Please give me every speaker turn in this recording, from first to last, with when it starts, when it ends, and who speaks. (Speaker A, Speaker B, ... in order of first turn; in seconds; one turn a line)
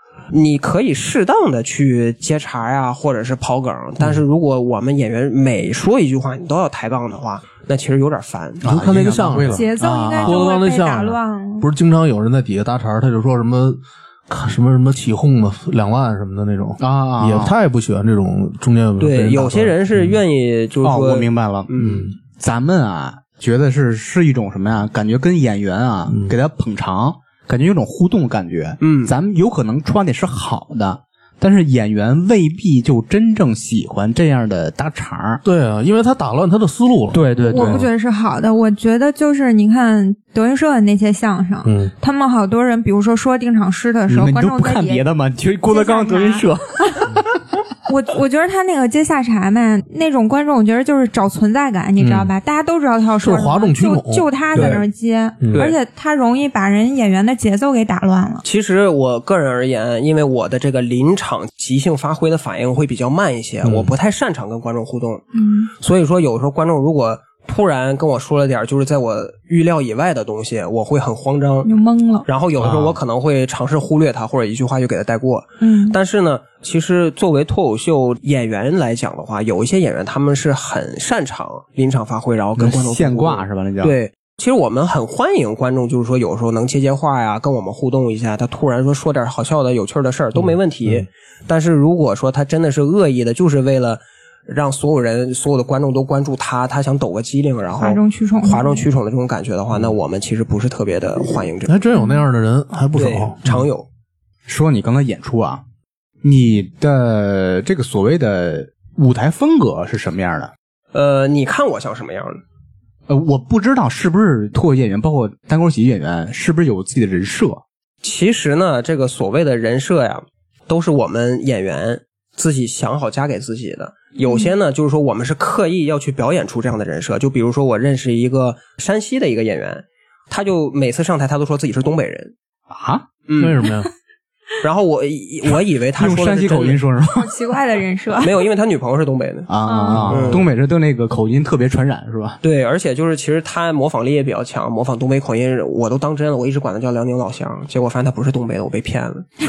Speaker A: 0.3-8.7
Speaker B: 8.6-20.2
Speaker C: 8.6-10.4
Speaker D: 9.5-11.7
Speaker C: 16.8-17.5
Speaker A: 19.0-22.1
Speaker C: 20.8-35.4
Speaker B: 21.8-22.1
Speaker B: 26.1-26.3
Speaker A: 28.8-29.1
Speaker B: 35.4-37.9
Speaker C: 37.1-37.9
Speaker D: 37.5-45.0
Speaker B: 41.6-41.9
Speaker C: 44.1-47.6
Speaker D: 45.7-47.1
Speaker D: 47.9-58.4
Speaker B: 52.0-52.3
Speaker B: 53.2-54.8
Speaker A: 54.5-54.8
Speaker A: 55.5-55.8
Speaker A: 58.4-65.2
Speaker B: 63.6-63.9
Speaker D: 65.3-65.7
Speaker A: 65.8-71.7
Speaker D: 71.6-72.2
Speaker A: 72.2-101.8
Speaker C: 72.6-73.0
Speaker D: 75.6-76.0
Speaker C: 82.6-84.0
Speaker D: 97.8-98.8
Speaker B: 101.7-103.6
Speaker D: 101.9-102.2
Speaker A: 102.9-103.8
Speaker C: 104.5-105.6
Speaker C: 106.2-110.5
Speaker A: 110.9-112.4
Speaker C: 113.1-117.6
Speaker A: 118.0-132.3
Speaker D: 124.2-124.5
Speaker C: 132.7-133.0
Speaker A: 133.3-133.6
Speaker B: 133.4-133.9
Speaker A: 134.6-136.8
Speaker C: 136.0-137.3
Speaker D: 137.1-138.4
Speaker A: 138.2-139.5
Speaker C: 139.5-142.4
Speaker D: 139.7-140.2
Speaker A: 140.1-140.5
Speaker B: 140.1-140.4
Speaker A: 142.4-149.3